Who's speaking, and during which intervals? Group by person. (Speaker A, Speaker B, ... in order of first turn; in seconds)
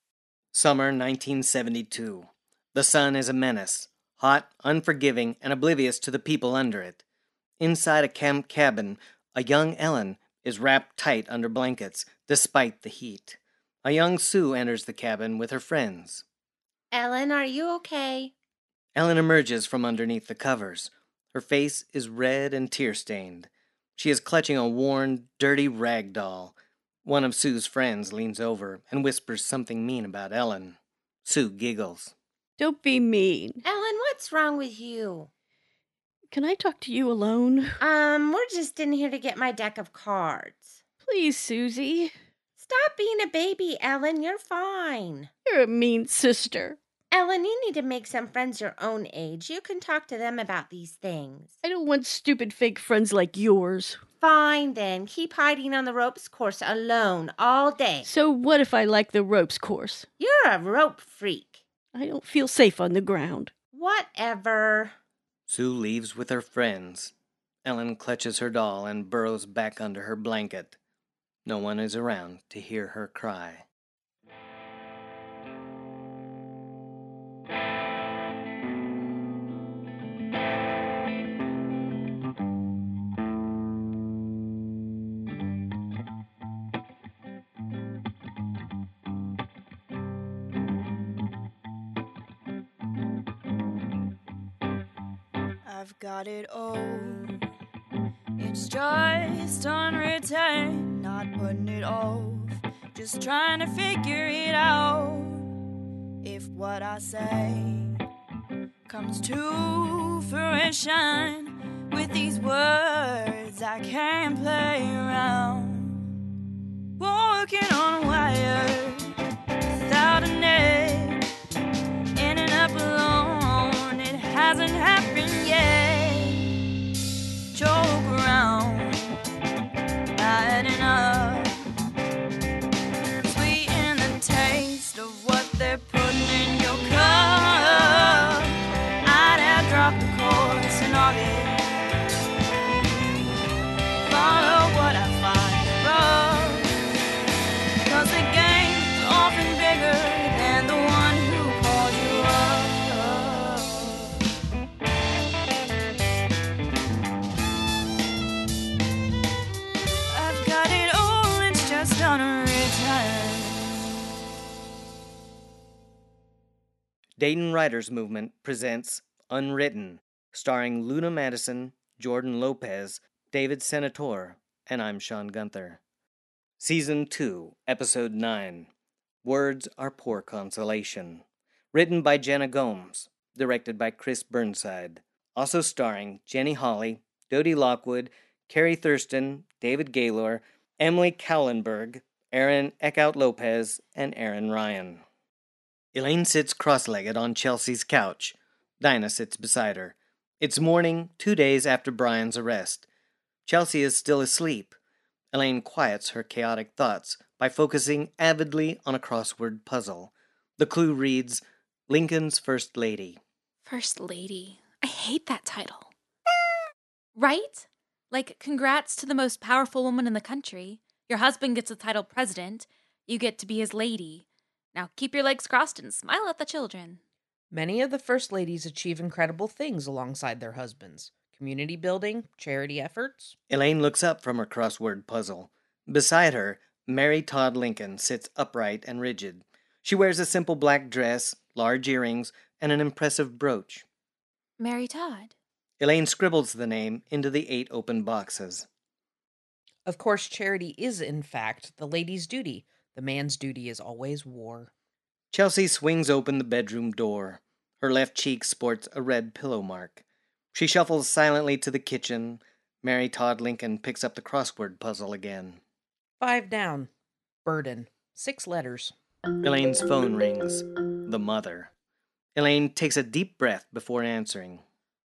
Speaker A: 0.5-7.0, 7.6-16.2, 18.9-32.1, 65.5-67.1, 67.7-70.8, 71.5-73.7, 167.2-175.8, 176.6-178.7, 179.2-195.0, 195.9-202.9, 203.5-204.8, 205.3-213.2, 233.5-243.8, 245.8-248.7, 255.3-265.6, 269.4-271.7, 272.4-274.6
Speaker B: 16.9-18.3, 33.6-35.3, 37.8-40.8, 42.6-45.3, 47.1-51.5, 54.2-58.1, 60.2-61.6, 63.7-65.0
Speaker C: 32.6-33.6, 36.3-37.8, 41.0-42.1, 45.5-46.8, 51.6-54.0, 58.0-60.1, 61.9-63.5
Speaker D: 95.6-97.4, 98.4-105.5, 106.2-108.0, 108.9-116.1, 117.0-119.1, 119.8-121.2, 122.2-126.6, 127.5-129.1, 130.2-131.6, 133.2-141.7, 142.8-143.4, 144.1-146.7, 147.9-154.1, 160.1-163.8
Speaker E: 213.7-215.9, 217.2-227.0, 244.6-245.3
Speaker F: 227.5-233.3, 249.8-254.7, 266.2-266.9, 267.4-268.9